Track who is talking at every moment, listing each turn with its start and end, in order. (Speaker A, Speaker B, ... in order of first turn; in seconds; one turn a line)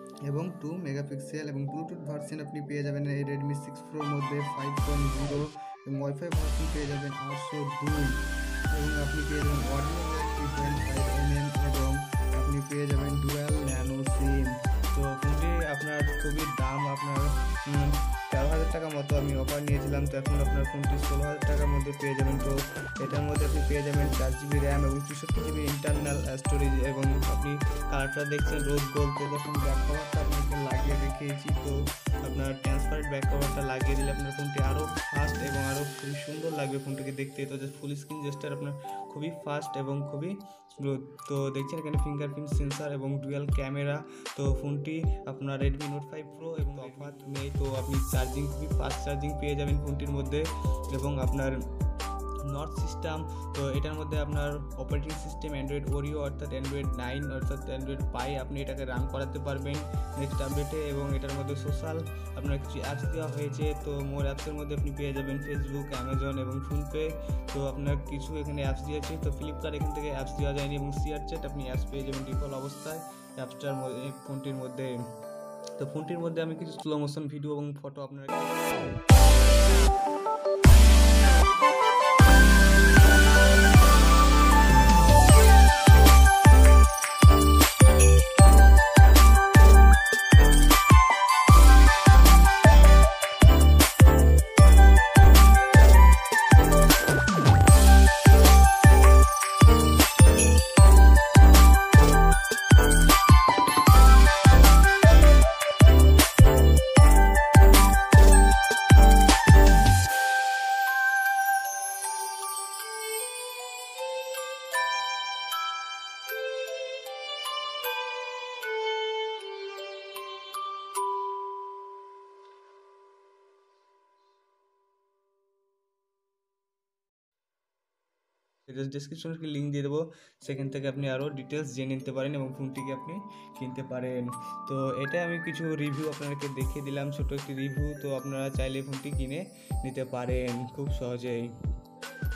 Speaker A: 0.2-51.6
Speaker A: 52.4-75.0
Speaker A: 75.8-79.0
Speaker A: 128.7-141.6